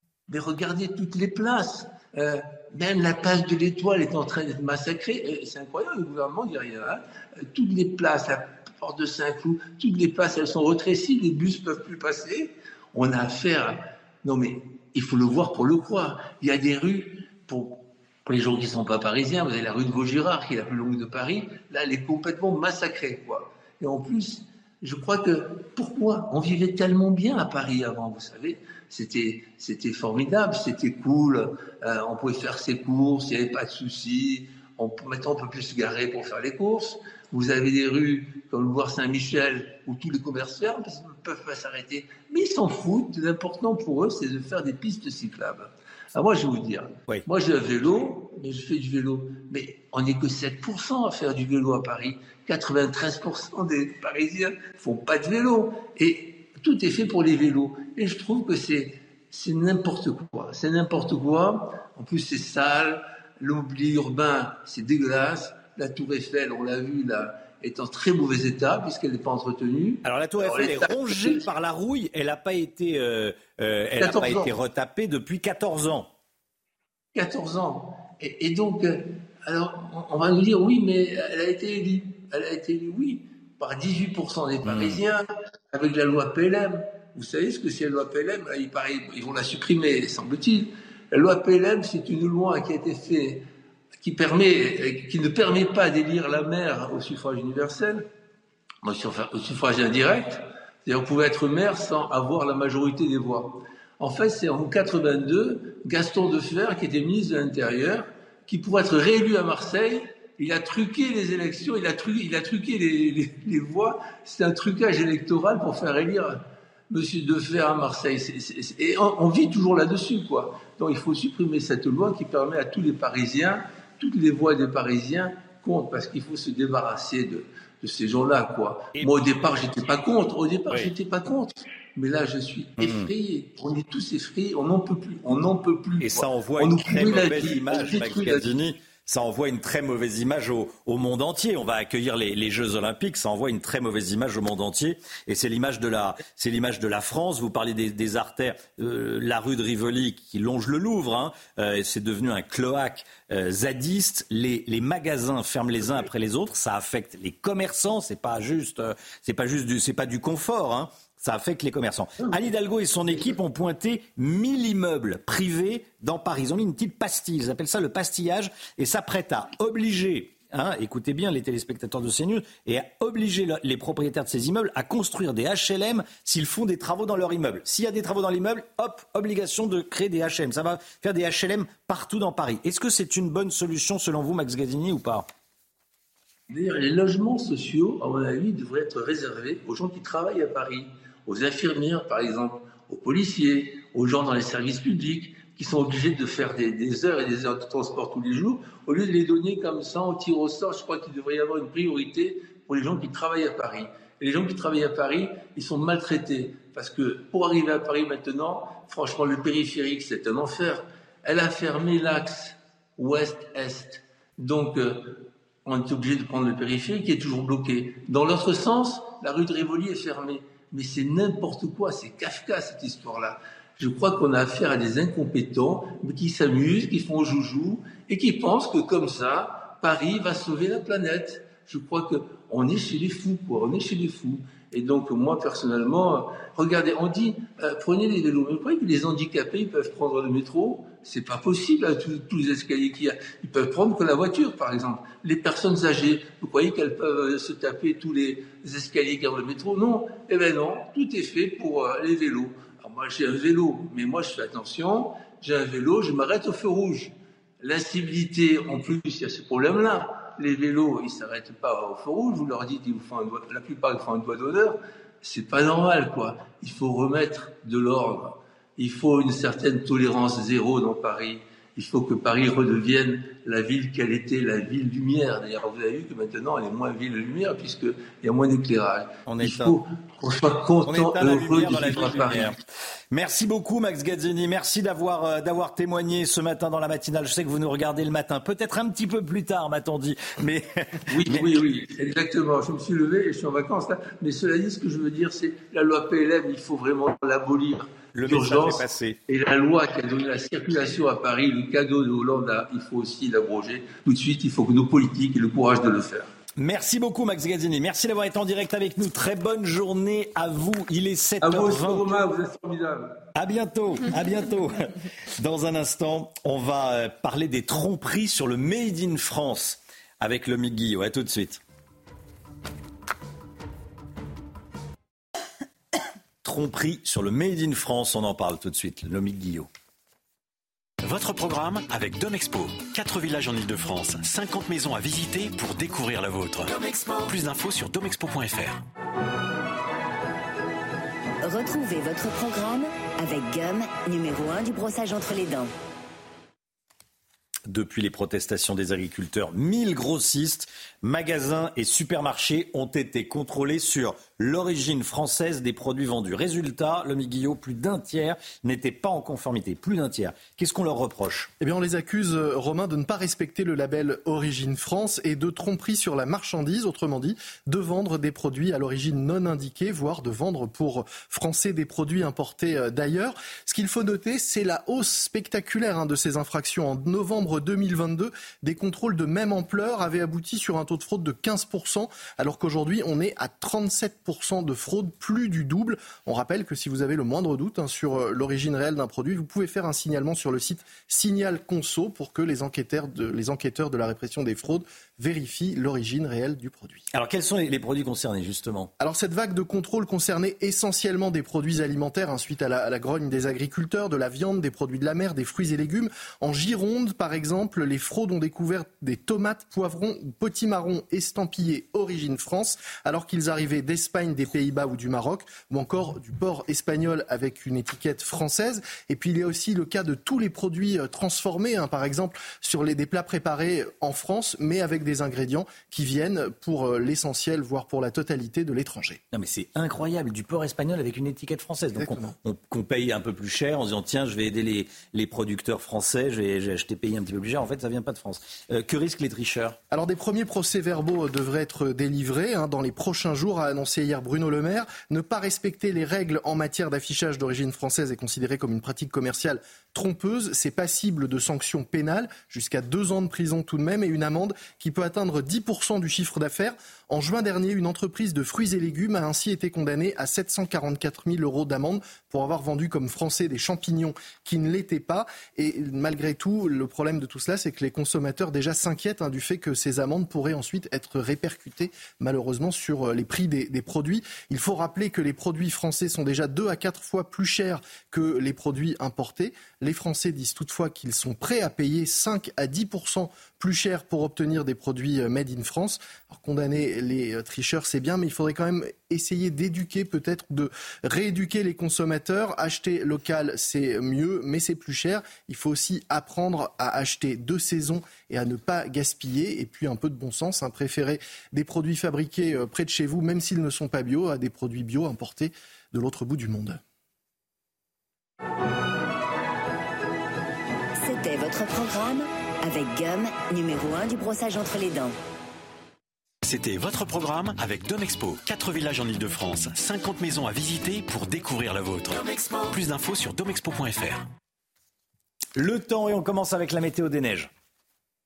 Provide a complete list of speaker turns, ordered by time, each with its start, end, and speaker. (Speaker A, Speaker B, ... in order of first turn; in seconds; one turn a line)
Speaker A: 0.3-71.4
Speaker B: 70.0-76.1
Speaker A: 74.0-74.5
Speaker A: 77.2-93.5
Speaker B: 84.7-85.0
Speaker A: 94.0-98.1
Speaker A: 98.8-138.5
Speaker B: 129.0-129.5
Speaker B: 132.8-133.1
Speaker B: 136.0-185.2
Speaker A: 186.5-282.6
Speaker B: 279.3-279.8
Speaker B: 280.9-282.6
Speaker B: 283.1-291.5
Speaker A: 291.1-306.3
Speaker B: 298.1-299.2
Speaker B: 306.6-312.1
Speaker A: 311.4-313.3
Speaker B: 313.4-321.6
Speaker B: 326.4-329.7
Speaker C: 331.0-338.8
Speaker D: 341.4-345.7
Speaker B: 347.7-361.5
Speaker E: 361.6-397.1
Speaker B: 397.1-398.9
Speaker E: 399.0-429.2
Speaker B: 429.3-439.8
Speaker E: 432.0-432.3
Speaker E: 439.9-506.8
Speaker D: 511.0-515.1
Speaker C: 516.4-524.3
Speaker B: 525.6-527.5